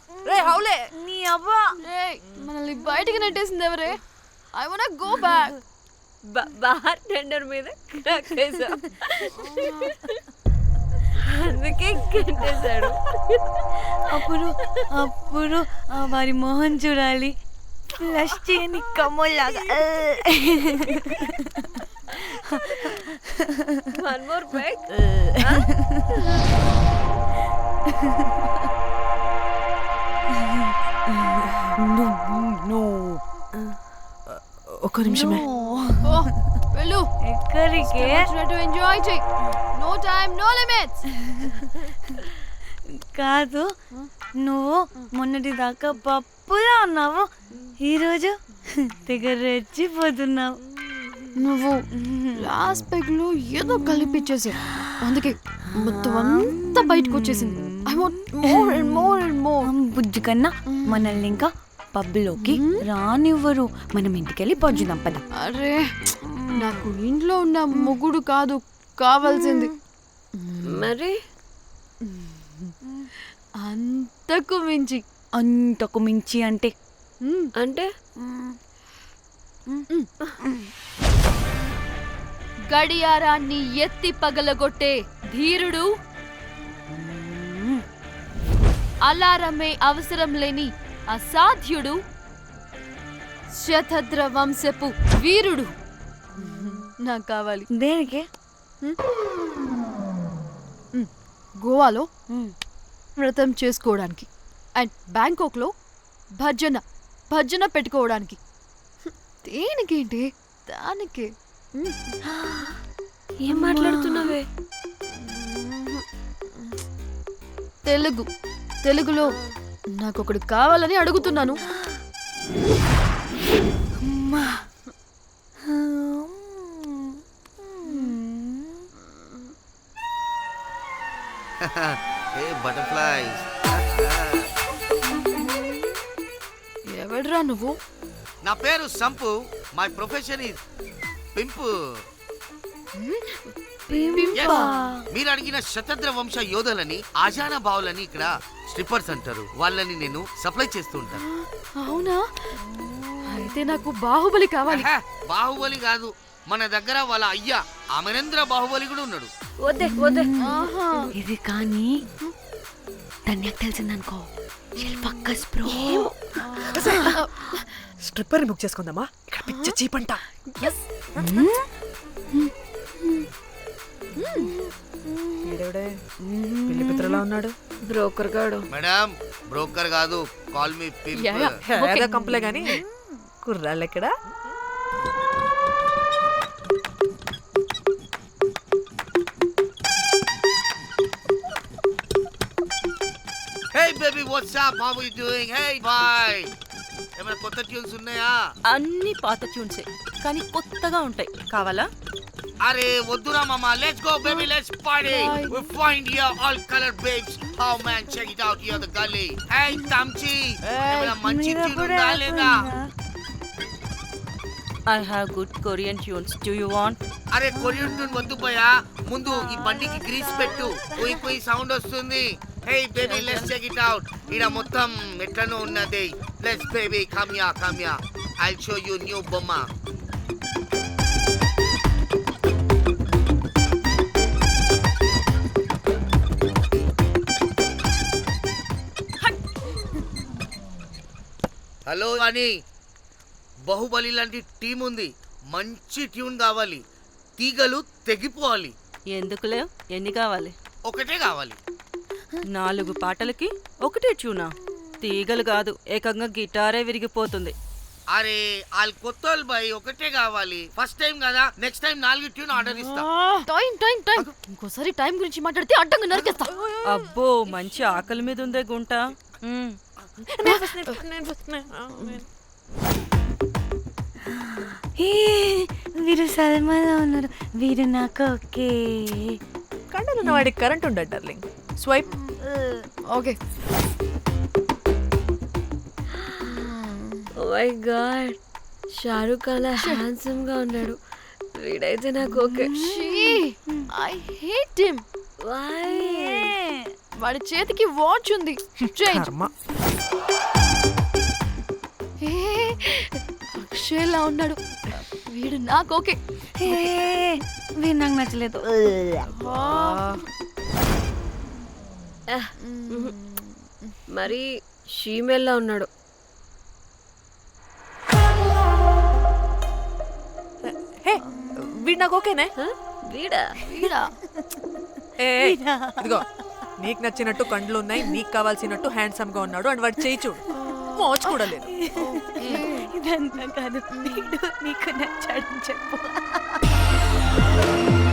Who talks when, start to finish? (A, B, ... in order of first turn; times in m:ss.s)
0:00.2-0:01.7 A
0:00.2-0:00.9 B
0:01.8-0:04.0 C
0:04.5-0:05.6 C
0:06.2-0:10.2 D
0:09.4-0:09.7 C
0:11.2-0:13.8 D
0:14.1-0:17.4 A
0:18.0-0:24.0 A
0:23.9-0:25.6 D
0:24.9-0:26.4 A
0:30.4-0:33.2 A
0:34.3-0:35.4 B
0:35.0-0:36.6 A
0:36.0-0:37.0 C
0:37.2-0:38.3 A
0:37.8-0:39.2 C
0:39.7-0:41.0 C
0:41.2-0:42.2 A
0:43.0-0:43.7 A
0:44.4-0:50.6 A
0:51.4-0:51.8 C
0:51.9-0:52.4 A
0:52.4-0:59.2 C
0:53.8-0:55.0 A
0:55.7-1:05.2 A
1:00.7-1:01.2 C
1:02.4-1:02.8 C
1:05.4-1:05.8 C
1:06.2-1:06.8 A
1:06.5-1:09.7 C
1:09.3-1:09.7 A
1:10.4-1:10.9 C
1:10.7-1:11.2 D
1:12.0-1:12.7 C
1:13.6-1:15.0 C
1:15.4-1:16.7 A
1:17.2-1:17.5 C
1:17.6-1:17.9 D
1:18.2-1:18.6 A
1:20.4-1:20.7 A
1:22.7-1:25.9 C
1:26.9-1:27.8 A
1:29.0-1:32.0 C
1:33.5-1:35.7 C
1:36.4-1:37.7 C
1:36.4-1:36.8 A
1:37.7-1:38.2 A
1:41.6-1:42.1 C
1:43.2-1:45.7 C
1:46.4-1:48.4 C
1:49.0-1:52.2 C
1:52.2-1:52.8 A
1:53.4-1:54.4 D
1:53.5-1:54.4 A
1:55.1-1:56.0 C
1:57.8-1:58.3 C
1:58.8-1:59.3 C
1:59.2-1:59.6 D
1:59.9-2:01.6 C
2:01.7-2:01.9 A
2:04.0-2:04.6 A
2:05.7-2:08.8 A
2:07.8-2:08.1 C
2:09.1-2:09.4 C
2:11.6-2:14.5 E
2:16.9-2:17.8 C
2:18.4-2:20.6 E
2:21.3-2:21.7 E
2:23.0-2:23.4 C
2:23.9-2:24.7 C
2:23.9-2:25.0 A
2:24.3-2:31.2 E
2:31.2-2:32.2 C
2:32.6-2:33.7 A
2:33.2-2:34.9 C
2:34.7-2:39.3 E
2:39.6-2:40.6 D
2:39.8-2:40.6 A
2:40.4-2:41.1 C
2:41.1-2:41.9 A
2:43.3-2:46.1 A
2:45.7-2:46.0 D
2:46.4-2:47.6 C
2:46.8-2:47.2 A
2:46.8-2:47.1 B
2:48.0-2:50.2 B
2:49.4-2:49.7 C
2:50.4-2:50.8 C
2:51.1-2:51.6 A
2:54.2-2:54.5 C
2:55.4-2:56.0 B
2:56.2-2:57.2 A
2:56.7-2:57.5 B
2:57.8-2:58.7 D
2:58.7-3:01.5 E
3:01.2-3:02.2 C
3:01.6-3:02.8 B
3:02.1-3:03.1 A
3:03.4-3:04.1 B
3:13.7-3:16.5 E
3:17.2-3:18.4 E
3:18.7-3:21.9 F
3:22.6-3:32.7 E
3:25.1-3:25.5 C
3:30.9-3:32.8 A
3:34.9-3:37.0 F
3:37.3-3:49.6 E
3:39.5-3:41.2 A
3:43.0-3:43.5 F
4:01.9-4:02.5 E
4:03.7-4:06.8 E
4:07.4-4:08.7 E
4:09.1-4:10.5 F
4:10.9-4:11.6 E
4:12.5-4:17.5 F
4:18.1-4:23.1 E
4:23.4-4:26.5 C
4:26.8-4:29.8 F
4:30.3-4:32.2 B
4:34.3-4:39.4 A
4:39.9-4:42.1 B
4:42.2-4:42.8 A
4:43.1-4:43.4 C
4:46.4-4:46.7 D
4:47.3-4:48.4 D
4:48.9-4:51.0 D
4:51.5-4:52.8 D
4:52.3-4:53.8 A
4:52.8-4:55.0 C
4:55.4-4:56.5 D
4:55.9-4:56.9 A
4:57.2-4:59.3 C
4:59.0-4:59.5 B
5:02.2-5:07.0 C
5:06.6-5:09.3 A
5:09.2-5:10.2 C
5:09.7-5:10.1 B
5:12.3-5:13.1 D
5:12.6-5:13.9 C
5:14.1-5:15.9 D
5:20.6-5:22.5 B
5:22.6-5:23.6 D
5:23.6-5:24.1 C
5:25.2-5:26.2 B
5:25.3-5:26.2 A
5:26.8-5:31.7 B
5:30.5-5:31.0 C
5:31.2-5:36.6 A
5:32.0-5:32.8 C
5:33.9-5:34.3 C